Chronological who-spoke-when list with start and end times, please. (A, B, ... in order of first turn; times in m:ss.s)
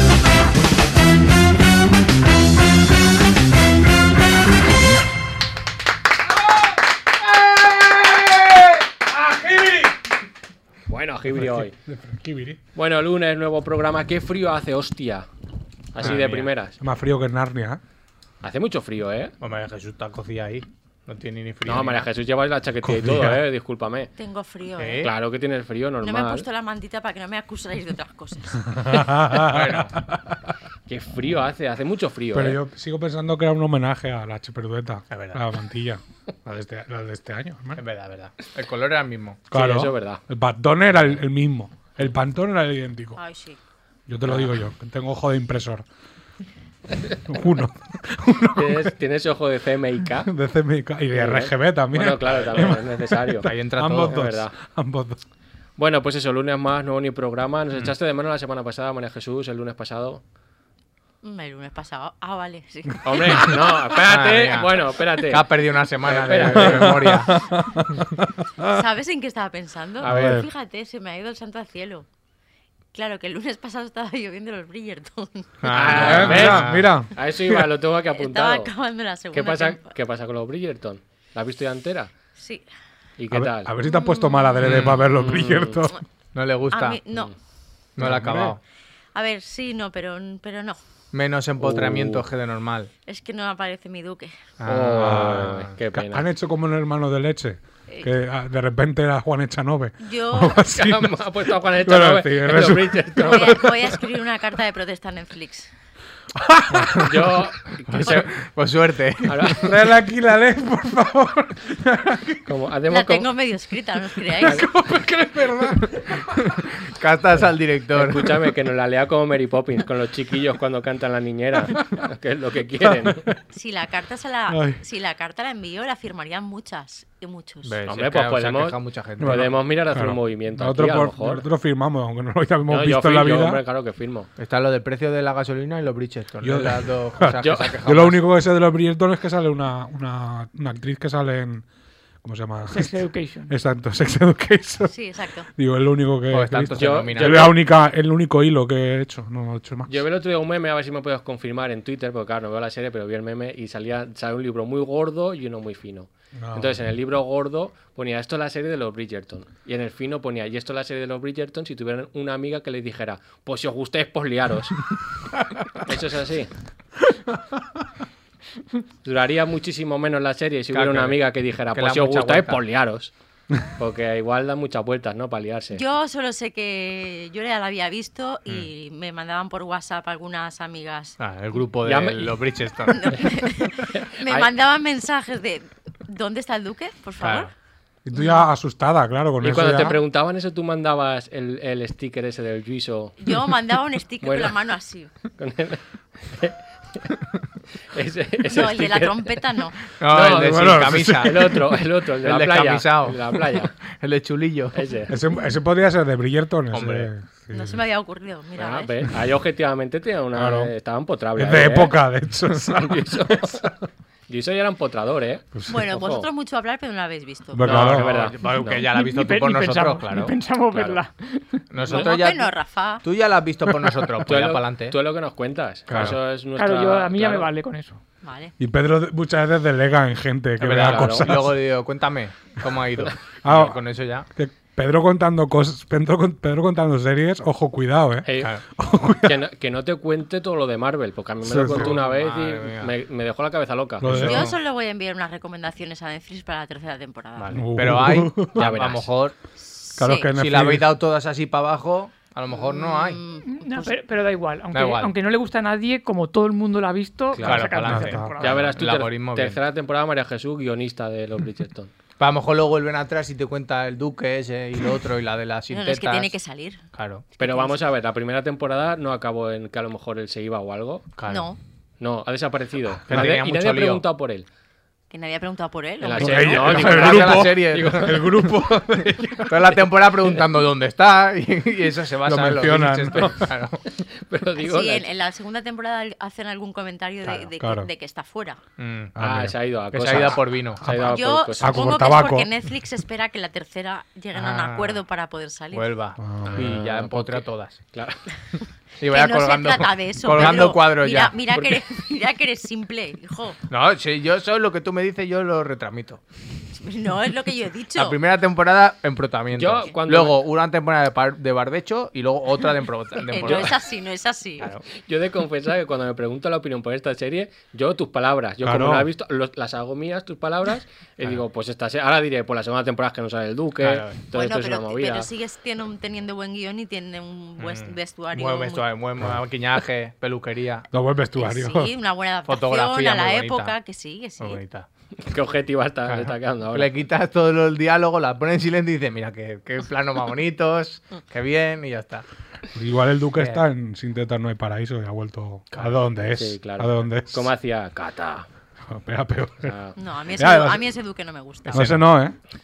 0:07.3-0:10.0 A
0:10.9-0:11.7 B
0:11.3-0:12.6 A
0:12.8-0:15.3 B
0:15.9-0:16.8 B
0:16.0-0:16.5 C
0:16.8-0:17.8 A
0:18.4-0:19.4 B
0:19.4-0:22.1 C
0:21.6-0:24.1 B
0:22.8-0:23.4 A
0:24.2-0:25.0 D
0:24.8-0:25.1 C
0:25.0-0:26.5 B
0:26.0-0:28.7 D
0:28.7-0:30.5 A
0:29.3-0:29.9 C
0:30.9-0:32.6 B
0:32.3-0:37.8 A
0:35.1-0:35.4 C
0:37.8-0:39.4 C
0:39.5-0:43.2 A
0:39.5-0:40.2 B
0:43.2-0:43.6 D
0:44.1-0:45.8 A
0:44.3-0:44.6 C
0:47.3-0:48.9 A
0:48.6-0:50.3 B
0:50.2-0:55.2 A
0:51.1-0:54.5 B
0:53.4-0:54.2 C
0:55.8-1:00.2 B
1:01.2-1:03.6 D
1:03.0-1:07.2 B
1:04.0-1:07.4 C
1:06.6-1:08.8 A
1:08.7-1:12.1 D
1:10.0-1:10.5 A
1:10.0-1:10.5 B
1:12.9-1:15.7 D
1:15.6-1:16.9 C
1:15.7-1:18.7 B
1:15.9-1:17.7 A
1:18.2-1:19.9 D
1:19.3-1:22.1 B
1:22.4-1:22.7 D
1:23.2-1:23.7 B
1:23.3-1:26.0 A
1:23.8-1:24.9 D
1:24.6-1:25.0 C
1:24.9-1:25.8 B
1:26.3-1:27.0 C
1:26.7-1:27.3 D
1:28.0-1:28.6 C
1:28.0-1:28.6 A
1:29.2-1:30.8 D
1:31.1-1:32.9 C
1:31.6-1:32.2 B
1:33.1-1:34.3 D
1:34.6-1:35.7 C
1:34.7-1:36.3 B
1:35.0-1:43.9 A
1:40.0-1:40.6 D
1:40.7-1:43.8 B
1:43.2-1:45.7 D
1:46.4-1:47.4 A
1:47.0-1:48.3 B
1:47.9-1:49.7 C
1:49.3-1:49.7 B
1:49.6-1:52.4 A
1:52.5-1:53.3 B
1:52.9-1:54.7 D
1:54.3-1:56.6 A
1:56.8-1:58.5 C
1:57.9-2:03.3 B
2:02.8-2:03.4 A
2:03.5-2:07.8 D
2:04.5-2:04.8 A
2:07.6-2:09.5 C
2:07.9-2:11.4 B
2:09.2-2:13.6 A
2:12.7-2:14.3 B
2:14.4-2:18.2 C
2:16.4-2:21.7 A
2:17.4-2:17.7 B
2:22.2-2:24.9 A
2:22.7-2:23.5 E
2:24.9-2:25.5 D
2:25.5-2:29.9 A
2:26.3-2:27.5 C
2:26.8-2:27.6 B
2:29.9-2:44.8 B
2:36.4-2:36.8 A
2:45.8-2:46.5 B
2:49.0-2:53.1 B
2:50.7-2:51.2 C
2:51.7-2:52.6 C
2:53.8-2:55.8 B
2:55.7-3:01.2 D
3:01.2-3:03.2 C
3:01.8-3:02.4 B
3:02.9-3:07.5 D
3:03.9-3:04.5 B
3:07.2-3:07.5 C
3:08.0-3:10.0 A
3:08.1-3:08.4 D
3:09.4-3:13.2 B
3:13.2-3:15.1 D
3:14.2-3:14.6 B
3:15.4-3:17.2 B
3:17.9-3:19.4 B
3:18.5-3:19.8 D
3:20.0-3:21.7 C
3:20.1-3:23.7 B
3:20.3-3:21.6 A
3:22.2-3:24.9 C
3:24.7-3:25.1 B
3:25.1-3:27.8 A
3:26.7-3:27.1 C
3:27.5-3:28.9 D
3:28.6-3:32.0 B
3:30.3-3:30.7 A
3:31.4-3:33.7 A
3:32.5-3:33.7 B
3:34.3-3:36.3 B
3:35.6-3:35.8 A
3:35.7-3:37.8 D
3:37.5-3:38.2 A
3:37.6-3:38.8 B
3:37.6-3:40.4 C
3:38.9-3:41.6 E
3:41.7-3:45.0 C
3:41.9-3:43.0 D
3:44.2-3:47.5 B
3:45.9-3:46.2 C
3:45.9-3:46.2 A
3:46.6-3:48.0 E
3:48.2-3:48.5 D
3:48.6-3:51.6 A
3:50.6-3:54.3 C
3:50.8-3:51.4 B
3:53.4-3:59.4 A
3:58.2-3:58.5 B
3:59.2-4:04.1 B
4:01.4-4:02.0 A
4:01.7-4:02.9 C
4:04.0-4:04.5 A
4:04.0-4:04.6 C
4:04.1-4:07.7 D
4:07.4-4:09.4 C
4:07.5-4:08.7 A
4:08.6-4:09.1 B
4:09.7-4:10.3 D
4:10.0-4:11.0 A
4:10.3-4:13.2 C
4:12.5-4:14.0 D
4:13.4-4:18.7 E
4:14.7-4:15.2 C
4:17.3-4:17.6 B
4:17.4-4:19.6 C
4:17.8-4:18.7 A
4:18.4-4:21.9 B
4:22.2-4:26.4 C
4:25.7-4:26.8 D
4:26.9-4:27.2 C
4:27.4-4:31.1 B
4:27.4-4:27.8 D
4:31.2-4:31.5 C
4:31.3-4:31.6 D
4:32.0-4:34.5 B
4:33.1-4:34.0 C
4:35.1-4:36.7 D
4:36.0-4:38.5 B
4:36.2-4:39.8 A
4:36.3-4:38.4 C
4:39.5-4:43.8 C
4:42.2-4:43.4 A
4:43.9-4:45.1 B
4:44.6-4:48.6 D
4:47.2-4:47.5 C
4:47.6-4:47.9 A
4:48.8-4:49.1 C
4:49.2-4:49.6 A
4:49.2-4:51.9 B
4:49.9-4:50.9 C
4:50.9-4:56.0 D
4:51.6-4:52.5 A
4:54.3-4:55.0 C
4:55.7-4:57.8 C
4:56.2-4:56.8 A
4:56.4-4:58.2 B
4:59.0-5:01.4 C
4:59.0-5:03.6 D
5:01.5-5:02.0 B
5:03.7-5:06.2 C
5:06.8-5:08.2 D
5:07.9-5:13.8 C
5:09.5-5:10.4 B
5:13.2-5:14.7 D
5:14.6-5:14.9 C
5:15.0-5:25.3 B
5:18.6-5:19.1 A
5:23.8-5:24.2 C
5:24.3-5:28.9 D
5:27.6-5:30.9 C
5:30.9-5:31.9 A
5:31.4-5:34.6 D
5:32.4-5:33.8 C
5:34.4-5:34.9 C
5:35.2-5:36.9 B
5:36.1-5:42.3 C
5:42.7-5:47.5 A
5:43.4-5:43.6 C
5:46.4-5:48.5 B
5:48.9-5:49.8 A
5:49.6-5:49.9 B
5:50.0-5:51.9 D
5:50.3-5:50.8 A
5:51.6-5:52.1 C
5:51.7-5:52.4 A